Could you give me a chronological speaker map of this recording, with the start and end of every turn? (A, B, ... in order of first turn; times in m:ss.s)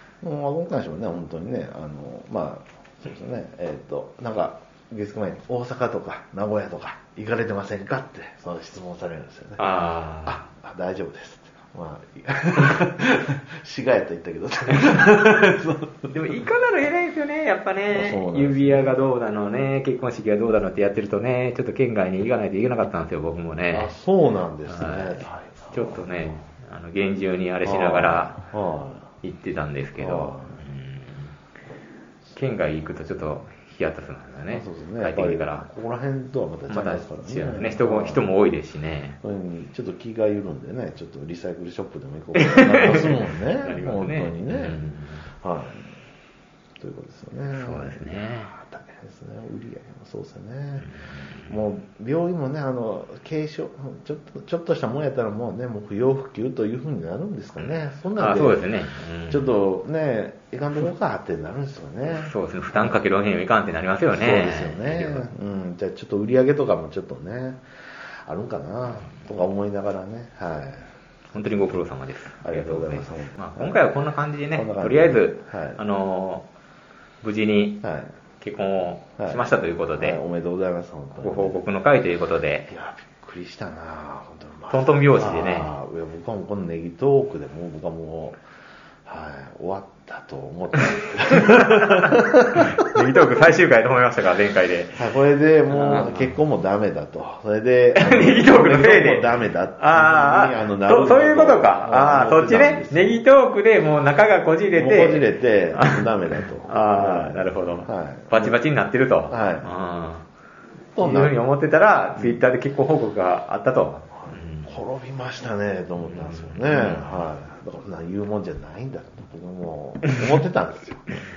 0:00.2-0:09.7 A
0:09.6-0:10.4 B
0:10.3-0:16.1 A
0:16.1-0:23.9 B
0:17.9-0:19.0 A
0:23.7-0:26.2 A
0:24.7-0:28.4 B
0:27.6-0:29.1 A
0:29.2-0:31.3 B
0:30.0-0:30.6 A
0:32.4-0:35.7 B
0:34.5-0:38.3 A
0:36.7-0:39.2 B
0:39.2-0:44.9 A
0:42.4-0:45.2 B
0:45.4-0:45.9 A
0:46.8-0:50.9 A
0:47.5-0:48.5 B
0:50.8-0:51.6 B
0:51.5-0:58.7 A
0:57.6-0:59.6 B
0:59.3-1:03.0 A
1:02.1-1:05.3 B
1:04.1-1:11.8 A
1:11.3-1:16.5 B
1:12.4-1:13.9 A
1:14.5-1:15.8 A
1:17.2-1:17.9 B
1:17.8-1:18.1 A
1:18.4-1:20.2 B
1:20.0-1:21.6 A
1:21.2-1:22.7 B
1:22.7-1:28.4 A
1:24.7-1:25.8 B
1:29.0-1:32.9 A
1:31.3-1:35.0 B
1:35.0-1:43.2 A
1:35.7-1:36.4 B
1:38.0-1:46.1 B
1:44.7-1:48.6 A
1:46.6-1:50.2 B
1:49.3-1:49.7 A
1:51.0-1:51.4 A
1:51.0-1:54.7 B
1:54.2-2:01.1 A
1:56.1-1:57.2 B